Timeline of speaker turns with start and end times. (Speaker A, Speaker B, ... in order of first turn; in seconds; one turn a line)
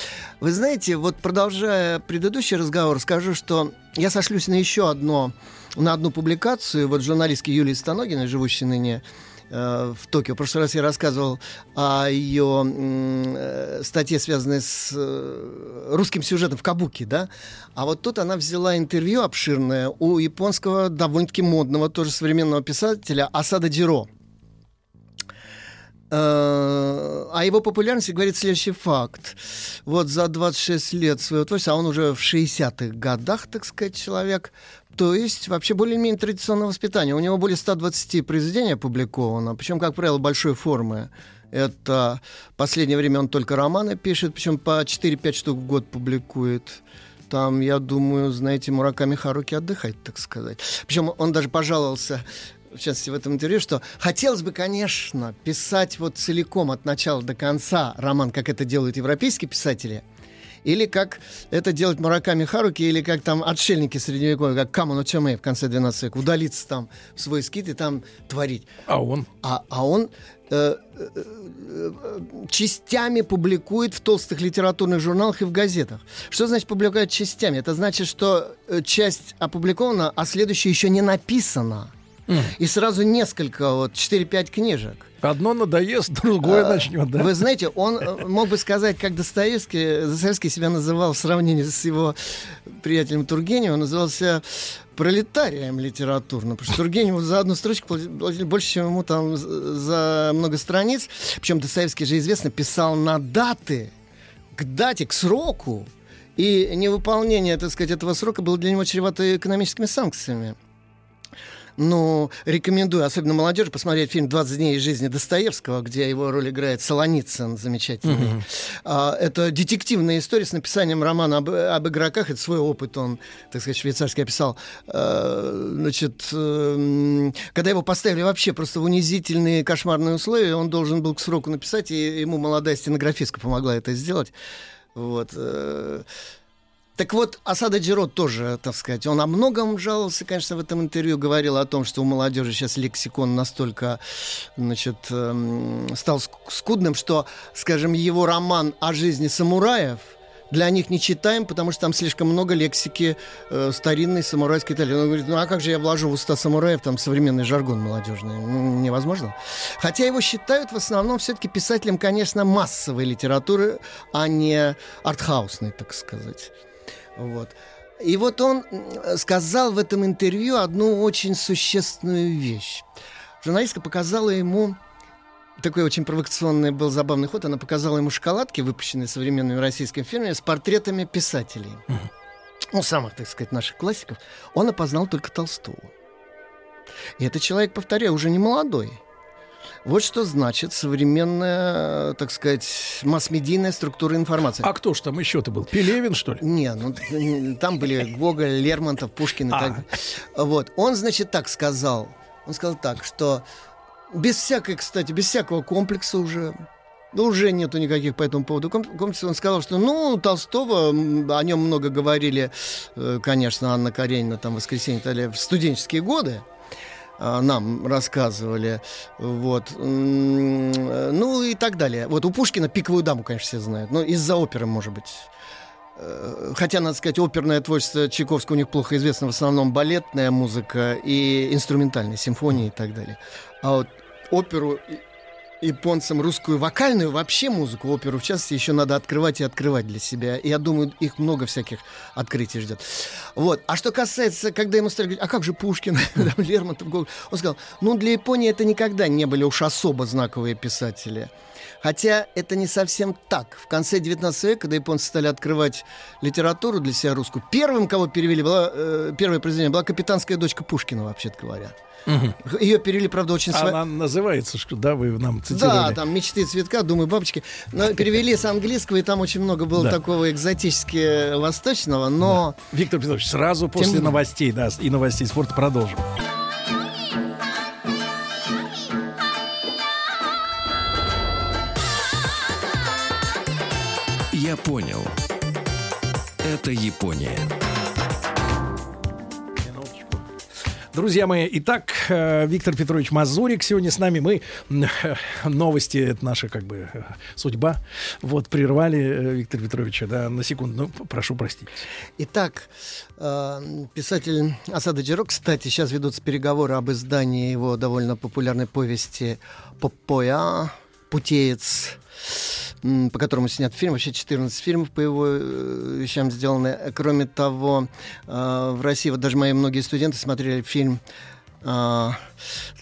Speaker A: 0.4-24.1
Speaker A: 26.1-60.0
Speaker A: 60.6-68.7
Speaker B: 68.9-69.3
Speaker A: 69.4-85.1
Speaker B: 82.3-82.5
Speaker B: 85.2-87.4
Speaker A: 86.4-103.9
Speaker A: 104.6-110.6
Speaker A: 111.8-134.3
Speaker B: 118.0-118.4
Speaker A: 134.9-136.1
Speaker A: 137.0-166.5
Speaker A: 167.2-172.9
Speaker A: 173.4-174.8
Speaker A: 175.6-181.8
Speaker A: 182.7-185.9
Speaker A: 187.2-189.0
Speaker A: 189.8-194.7
Speaker B: 194.6-196.4
Speaker A: 196.4-203.4
Speaker B: 199.5-199.8
Speaker A: 204.1-206.6
Speaker A: 207.1-216.5
Speaker A: 217.2-225.3
Speaker A: 226.0-235.0
Speaker A: 235.6-261.8
Speaker B: 262.1-262.4
Speaker A: 262.4-263.8
Speaker B: 263.5-266.0
Speaker A: 265.5-272.6
Speaker B: 272.2-276.1
Speaker A: 273.8-274.2
Speaker C: 284.3-285.1
Speaker C: 286.4-287.5
Speaker B: 289.6-290.3
Speaker B: 290.9-301.8
Speaker A: 302.2-312.0
Speaker A: 312.8-321.0
Speaker A: 321.6-322.2